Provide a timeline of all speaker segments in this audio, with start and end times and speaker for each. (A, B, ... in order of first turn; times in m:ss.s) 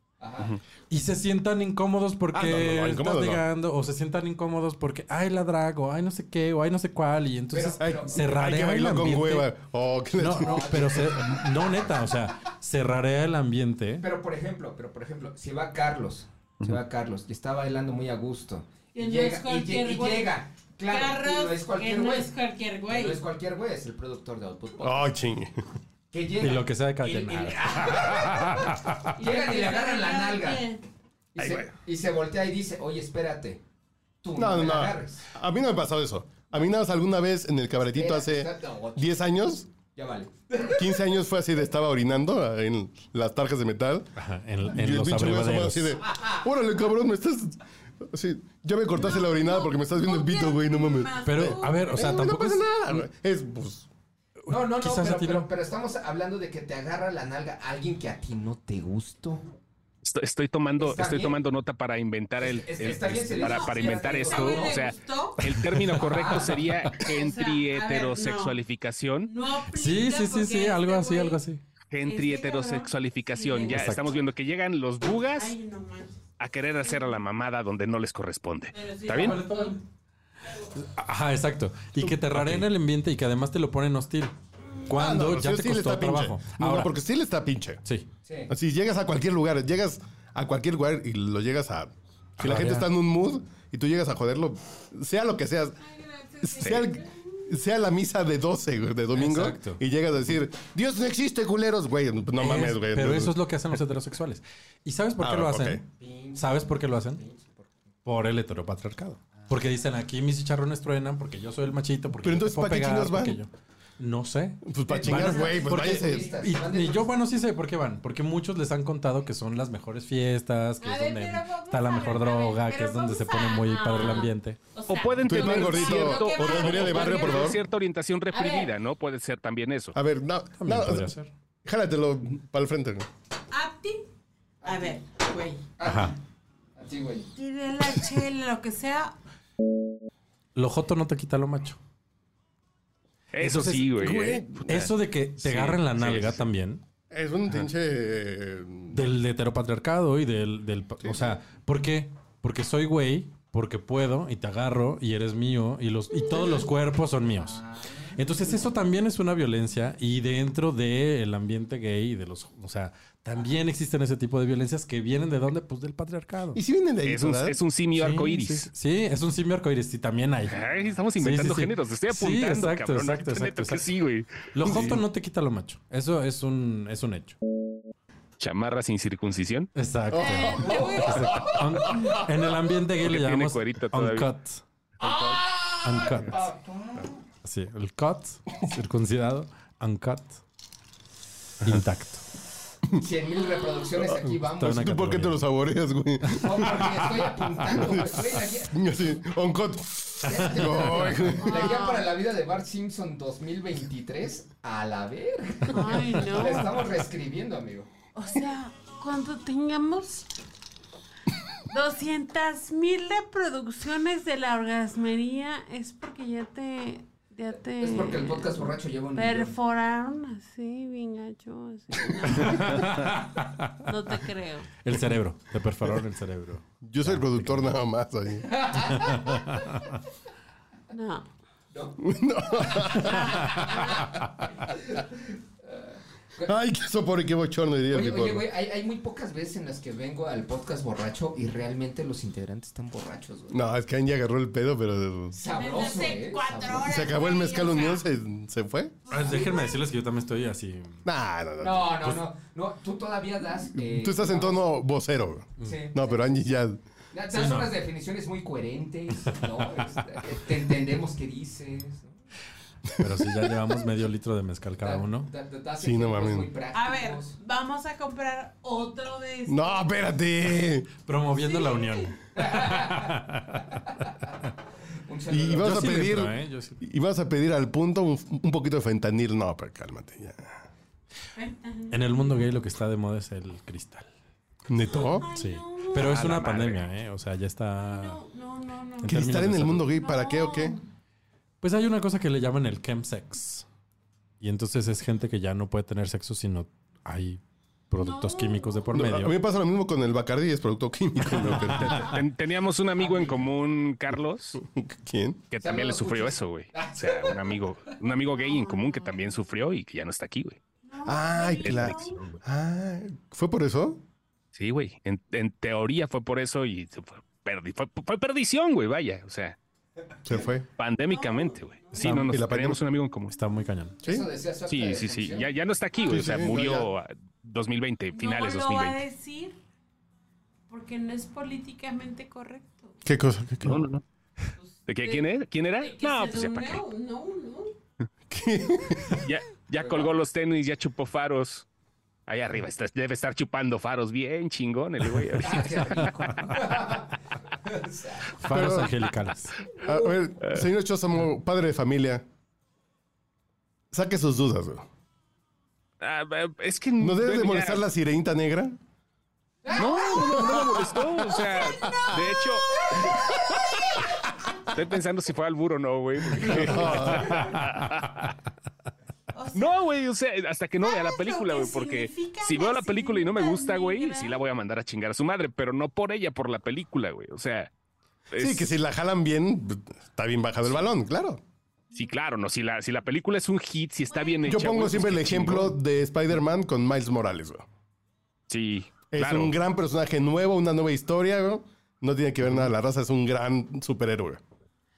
0:00.2-0:00.5 A
0:00.9-0:09.5 B
0:02.3-0:03.4 C
0:07.5-0:08.2 A
0:07.8-0:11.1 C
0:10.2-0:14.0 B
0:10.4-0:12.0 A
0:14.0-0:22.3 A
0:18.9-0:23.2 D
0:22.9-0:25.1 A
0:24.8-0:25.6 C
0:26.1-0:30.6 A
0:26.4-0:29.1 B
0:29.2-0:30.8 D
0:31.3-0:33.6 A
0:34.2-0:35.2 A
0:34.4-0:39.7 C
0:37.9-0:39.1 A
0:39.9-0:41.0 A
0:40.7-0:53.9 C
0:44.2-0:46.0 B
0:46.1-0:46.4 A
0:48.9-0:51.9 D
0:51.2-0:53.0 B
0:54.4-0:55.5 B
0:54.5-0:59.4 A
1:00.0-1:09.3 E
1:00.8-1:01.4 A
1:02.4-1:04.9 A
1:03.4-1:05.4 D
1:05.6-1:06.0 B
1:05.9-1:06.7 A
1:07.0-1:08.6 D
1:09.2-1:11.4 D
1:09.7-1:11.6 B
1:11.9-1:15.5 E
1:12.0-1:14.1 D
1:13.7-1:14.1 B
1:15.3-1:16.2 D
1:16.4-1:19.4 E
1:16.8-1:17.2 D
1:18.7-1:19.8 D
1:19.1-1:19.8 B
1:20.7-1:24.3 B
1:24.9-1:27.0 B
1:24.9-1:27.8 C
1:28.2-1:28.5 A
1:28.5-1:35.8 C
1:32.4-1:32.9 B
1:35.8-1:37.4 D
1:36.4-1:43.4 C
1:36.6-1:36.9 E
1:39.1-1:39.8 B
1:42.4-1:45.8 B
1:45.2-1:45.8 C
1:46.0-1:47.7 A
1:46.4-1:47.2 B
1:48.0-2:04.6 B
1:52.2-1:53.4 C
1:54.6-1:56.3 C
1:54.9-1:57.1 A
2:00.8-2:07.6 D
2:04.9-2:09.9 E
2:05.2-2:07.6 C
2:08.3-2:08.7 D
2:09.9-2:11.1 C
2:10.6-2:11.3 B
2:11.6-2:13.1 C
2:13.5-2:14.1 D
2:14.6-2:16.2 A
2:14.6-2:15.6 D
2:15.8-2:16.1 B
2:16.8-2:17.3 A
2:17.4-2:19.1 D
2:20.5-2:21.8 B
2:23.3-2:26.4 E
2:23.4-2:26.8 B
2:24.1-2:24.7 C
2:27.1-2:29.1 C
2:28.9-2:37.6 B
2:31.0-2:31.4 C
2:37.4-2:38.7 A
2:38.1-2:46.6 B
2:46.5-2:47.6 C
2:47.0-2:48.7 E
2:48.0-2:50.6 B
2:50.5-2:55.0 E
2:51.2-2:53.8 B
2:54.5-2:57.4 B
2:58.4-2:59.7 E
2:59.7-3:04.6 B
3:00.1-3:00.9 C
3:00.2-3:01.5 D
3:00.6-3:02.1 A
3:03.0-3:04.3 E
3:05.0-3:07.2 A
3:05.8-3:06.4 B
3:07.4-3:10.4 B
3:11.6-3:12.2 B
3:12.9-3:14.9 A
3:14.1-3:21.5 C
3:14.5-3:15.4 B
3:16.3-3:18.8 A
3:20.2-3:27.9 A
3:21.4-3:22.1 D
3:25.7-3:26.8 D
3:28.1-3:30.3 D
3:31.7-3:43.1 D
3:37.8-3:39.5 A
3:42.2-3:43.8 B
3:43.8-3:44.7 D
3:44.8-3:47.8 B
3:46.8-3:48.6 C
3:48.5-3:49.4 A
3:49.1-3:49.9 B
3:50.9-3:51.3 D
3:51.7-3:54.0 A
3:52.0-3:53.8 C
3:53.0-3:54.1 D
3:54.6-3:55.1 A
3:55.6-3:56.5 A
3:56.4-3:58.5 C
3:57.9-4:03.6 A
4:03.5-4:05.4 C
4:05.3-4:06.9 A
4:05.4-4:08.1 D
4:06.8-4:09.0 C
4:09.0-4:09.8 D
4:09.1-4:11.0 B
4:11.0-4:12.2 C
4:11.6-4:14.6 A
4:13.7-4:16.8 C
4:15.6-4:16.1 A
4:17.1-4:22.2 A
4:17.3-4:17.7 B
4:23.0-4:25.3 B
4:24.8-4:27.4 A
4:25.8-4:26.5 C
4:26.7-4:29.9 D
4:29.5-4:30.9 C
4:31.0-4:33.7 B
4:31.3-4:32.2 D
4:32.4-4:33.2 A
4:35.1-4:36.1 A
4:35.3-4:40.5 C
4:35.6-4:36.8 B
4:41.4-4:42.5 D
4:41.9-4:44.1 B
4:44.7-4:45.3 C
4:44.9-4:46.2 D
4:45.4-4:48.2 B
4:46.0-4:46.8 E
4:47.8-4:49.2 D
4:49.0-4:49.9 B
4:49.0-4:50.8 C
4:49.8-4:50.8 D
4:51.6-4:53.6 B
4:54.4-4:59.3 B
4:58.0-4:59.0 D
4:58.9-5:02.2 C
5:01.5-5:01.8 B
5:01.7-5:04.6 E
5:03.0-5:03.5 A
5:04.6-5:05.4 C
5:05.5-5:10.6 E
5:05.6-5:07.6 A
5:08.2-5:09.3 D
5:10.8-5:12.2 D
5:11.0-5:14.0 C
5:11.6-5:12.4 E
5:14.5-5:19.6 E
5:20.2-5:20.6 C
5:20.8-5:23.4 E
5:21.1-5:22.1 D
5:22.0-5:22.4 B
5:22.0-5:22.8 C
5:23.3-5:24.0 B
5:24.0-5:25.5 A
5:24.7-5:29.0 E
5:26.0-5:26.9 C
5:28.1-5:29.6 D
5:30.7-5:33.0 D
5:33.0-5:33.8 C
5:33.6-5:34.0 E
5:34.6-5:37.7 D
5:34.9-5:36.8 E
5:38.3-5:39.2 C
5:39.1-5:41.6 E
5:39.8-5:40.2 A
5:42.3-5:46.1 E
5:45.4-5:48.4 A
5:48.4-5:49.5 B
5:48.4-5:48.9 C
5:49.8-5:52.2 C
5:53.9-5:54.8 C
5:56.0-5:57.8 E
5:57.0-5:58.8 C
5:59.6-6:00.4 A
5:59.7-6:03.2 E
6:00.1-6:01.2 C
6:01.3-6:04.7 D
6:04.7-6:08.3 E
6:06.4-6:07.5 C
6:09.3-6:09.8 D
6:09.5-6:17.7 E
6:10.8-6:14.4 D
6:18.3-6:18.7 E
6:18.4-6:21.4 C
6:21.9-6:25.8 E
6:24.1-6:24.7 D
6:24.4-6:27.6 C
6:28.5-6:29.5 E
6:29.1-6:34.4 C